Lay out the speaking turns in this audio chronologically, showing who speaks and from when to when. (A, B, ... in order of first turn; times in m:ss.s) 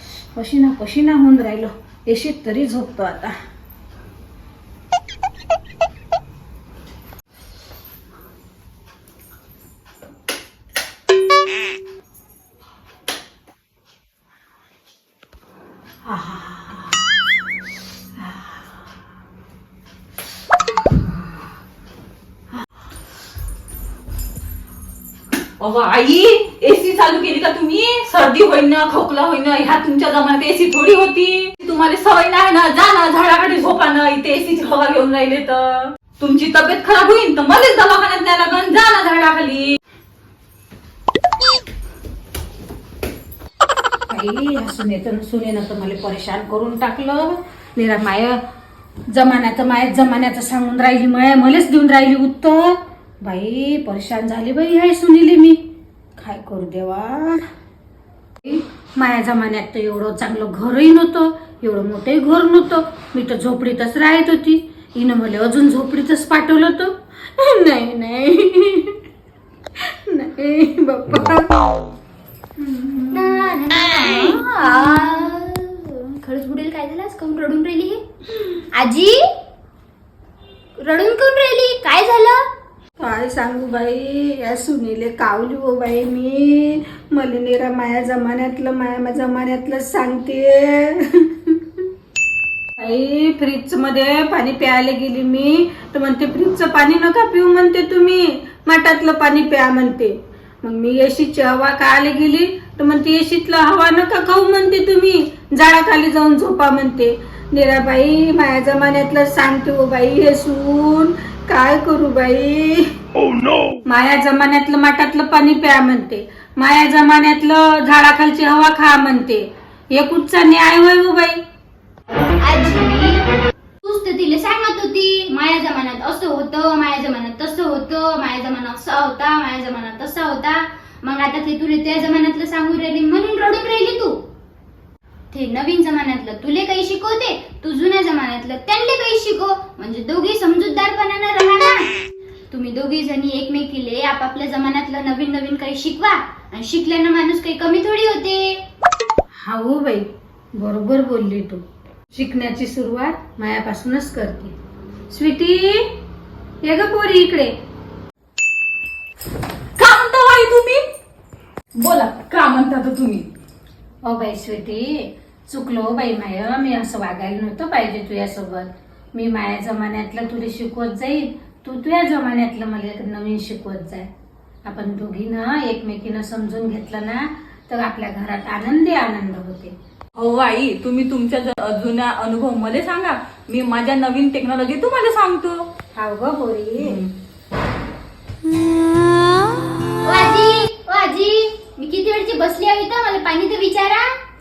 0:00.3-0:03.3 A
0:16.0-0:16.9 A
0:25.6-0:39.8 B
0:44.1-0:48.4 A
0:49.1-0:55.6 A
0:56.2-0:57.4 A
0:58.4-1:09.0 A
1:09.8-1:11.5 A
1:12.6-1:13.5 A
1:13.1-1:18.0 C
1:18.7-1:19.3 C
1:20.8-1:22.4 C
1:23.0-1:31.6 A
1:32.8-1:52.9 A
1:53.8-2:01.4 A
2:02.4-2:03.2 C
2:03.8-2:14.2 C
2:15.3-2:21.9 C
2:22.5-2:28.6 C
2:29.4-2:31.6 A
2:32.1-2:34.5 A
2:35.1-2:35.8 A
2:36.6-2:37.5 A
2:39.8-2:40.8 B
2:41.7-2:43.3 B
2:44.0-2:54.1 A
2:54.6-2:59.7 A
3:00.2-3:05.6 B
3:06.0-3:07.0 A
3:06.8-3:07.1 B
3:10.0-3:14.1 C